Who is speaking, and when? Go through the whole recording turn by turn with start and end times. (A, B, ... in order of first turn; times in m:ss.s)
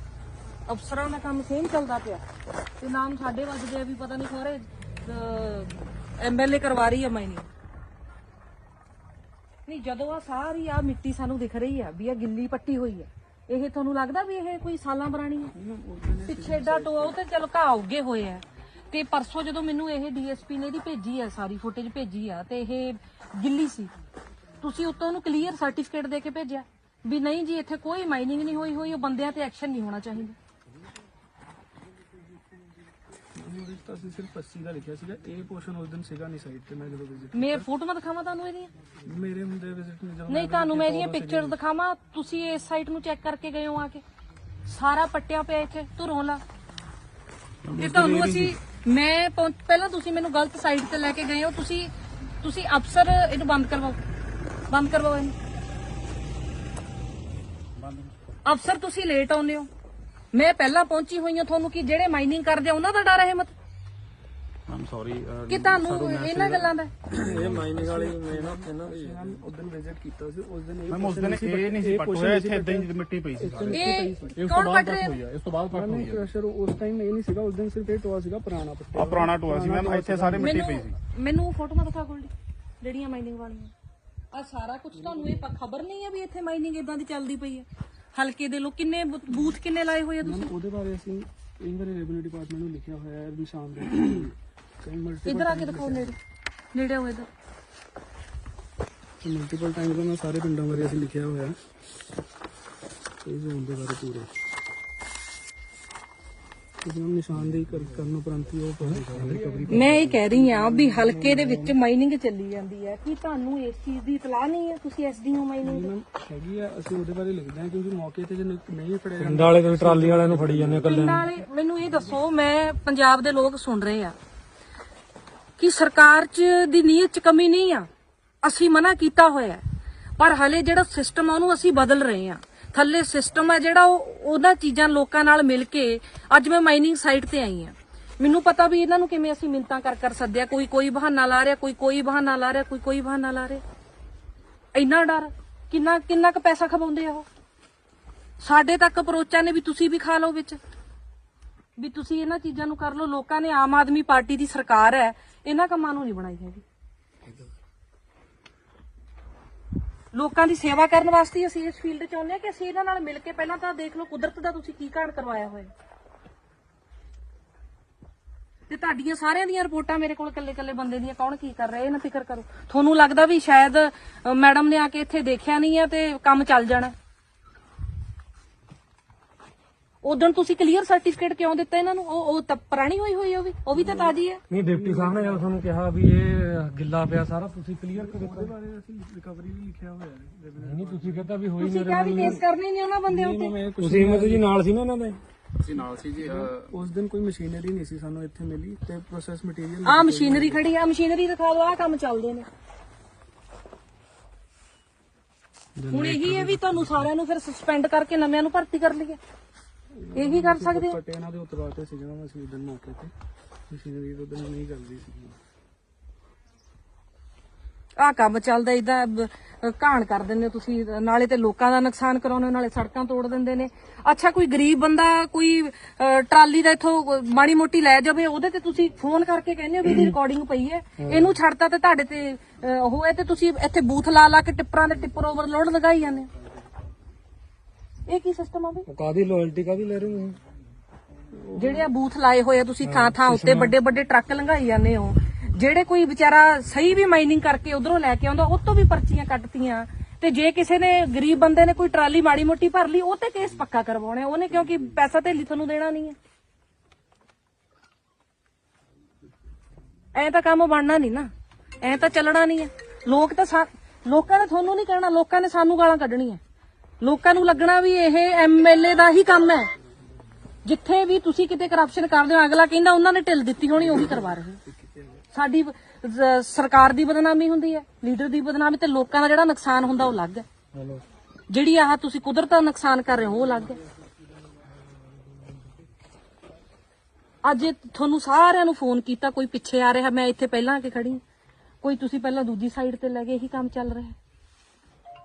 0:00.7-0:02.2 A
0:02.8-0:07.5 A
0:09.6-0:15.5 A
0:15.5-0:17.2 B
0:16.2-0:23.9 A
0:24.6-0:30.4 A
0:33.3-0:37.7 B
0:37.3-0:38.7 A
0:39.0-0:41.6 B
0:40.3-0:44.0 A
0:44.6-0:46.4 A
0:47.6-0:48.5 C
0:47.8-0:54.0 A
0:54.7-0:55.3 A
0:58.4-0:59.7 A
1:00.3-1:03.5 A
1:04.7-1:06.7 C
1:05.5-1:06.9 A
1:07.1-1:09.4 D
1:07.1-1:14.4 B
1:10.9-1:16.3 C
1:13.7-1:15.2 A
1:15.7-1:20.5 B
1:18.9-1:21.0 C
1:20.4-1:23.7 A
1:24.3-1:30.5 A
1:30.2-1:36.1 B
1:35.2-1:36.2 A
1:36.7-1:37.3 A
1:39.2-1:41.6 B
1:43.2-1:44.3 B
1:46.8-1:51.8 B
1:48.8-1:50.1 D
1:49.7-1:55.9 A
1:55.6-2:01.2 B
1:59.2-2:01.2 D
2:00.8-2:04.1 A
2:05.6-2:07.9 A
2:08.4-2:09.6 A
2:10.2-2:23.6 A
2:24.7-2:27.2 A
2:28.4-2:30.6 A
2:31.8-2:36.6 A
2:40.1-2:45.7 A
2:48.7-2:56.9 A
3:00.0-3:04.4 A
3:03.8-3:04.1 B
3:04.5-3:08.5 D
3:04.6-3:05.5 B
3:07.9-3:11.3 B
3:10.6-3:12.4 D
3:11.6-3:13.6 A
3:12.0-3:12.4 B
3:13.1-3:14.5 B
3:13.8-3:15.2 D
3:15.7-3:16.7 C
3:16.2-3:20.6 B
3:19.8-3:22.4 A
3:25.8-3:27.1 B
3:25.9-3:29.2 A
3:29.9-3:33.1 B
3:30.1-3:31.0 A
3:33.7-3:35.4 B
3:38.0-3:56.3 A
3:51.0-3:51.4 D
3:58.1-3:58.8 A
3:58.9-4:00.4 D
4:01.3-4:01.8 B
4:01.5-4:16.2 A
4:02.8-4:03.8 D
4:20.1-4:21.3 A
4:21.8-4:26.4 A
4:27.0-4:29.7 A
4:30.6-4:34.6 A
4:33.8-4:35.1 B
4:35.3-4:40.4 A
4:40.7-4:41.0 D
4:41.5-4:43.8 A
4:47.4-4:51.2 A
4:51.8-4:54.2 A